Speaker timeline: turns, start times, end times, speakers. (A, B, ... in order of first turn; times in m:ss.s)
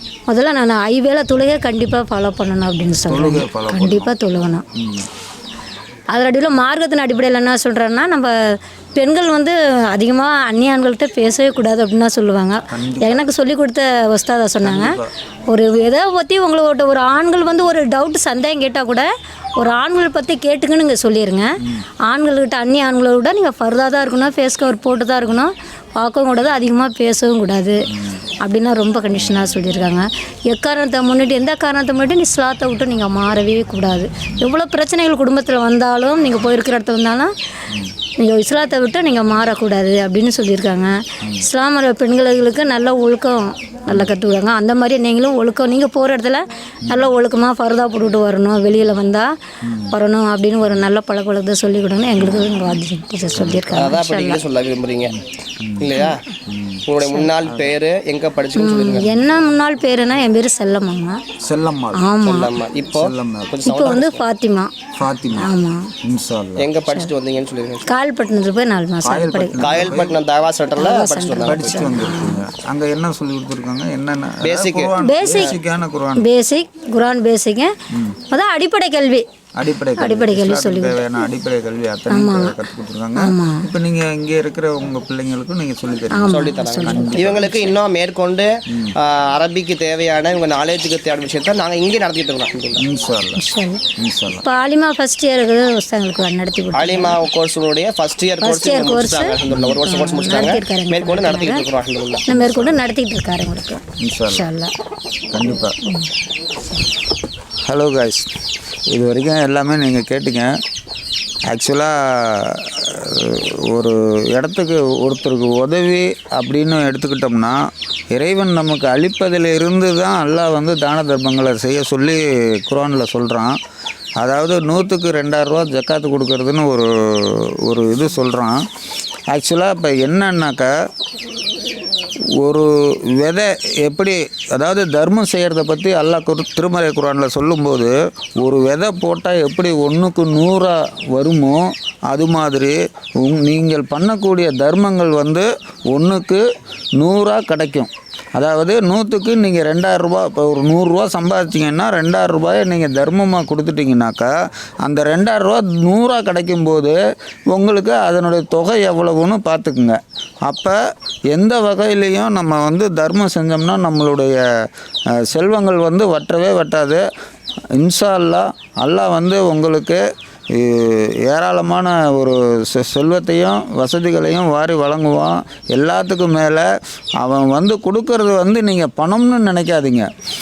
0:00.3-0:04.6 A
0:03.1-0:04.1 B
0:04.8-0:05.1 B
0:06.1-0:27.9 A
0:12.7-0:13.3 B
0:14.6-0:15.1 B
0:28.4-0:37.3 A
0:38.2-0:54.4 A
0:43.9-0:44.1 B
0:46.8-0:47.1 B
0:49.6-0:50.0 B
0:52.2-0:52.8 B
0:53.3-0:54.0 B
0:53.7-0:55.2 C
0:55.6-0:56.0 B
0:55.8-0:56.2 C
0:56.5-0:56.8 B
0:56.9-0:59.1 C
0:57.5-0:57.7 B
0:58.6-1:01.2 A
1:01.4-1:02.1 B
1:01.9-1:02.6 A
1:02.2-1:04.2 C
1:02.9-1:03.5 B
1:03.6-1:04.7 A
1:05.0-1:05.5 B
1:05.4-1:05.9 A
1:06.0-1:06.7 B
1:06.6-1:07.9 C
1:07.9-1:10.0 A
1:09.0-1:10.2 B
1:09.6-1:11.9 C
1:10.8-1:12.4 A
1:11.5-1:16.3 B
1:14.4-1:14.9 C
1:15.0-1:15.6 A
1:16.2-1:17.7 A
1:17.9-1:18.2 B
1:18.3-1:19.2 A
1:19.6-1:27.6 B
1:20.0-1:21.1 A
1:22.1-1:22.6 A
1:23.2-1:23.7 A
1:26.1-1:27.6 A
1:26.3-1:32.8 C
1:28.7-1:29.0 B
1:32.8-1:33.4 B
1:33.4-1:33.8 A
1:34.0-1:34.4 B
1:34.4-1:37.2 A
1:36.7-1:42.3 C
1:38.4-1:41.7 A
1:39.5-1:39.8 B
1:42.3-1:42.8 B
1:42.3-1:44.7 A
1:44.0-1:44.5 B
1:45.3-1:45.8 B
1:47.7-1:48.3 B
1:48.9-1:50.6 B
1:51.5-1:57.6 B
1:58.1-2:03.6 B
2:04.2-2:08.6 B
2:09.3-2:10.8 B
2:12.4-2:26.4 B
2:27.0-2:34.3 B
2:34.8-2:37.0 B
2:37.5-2:40.8 B
2:41.3-2:47.0 B
2:47.7-3:00.1 B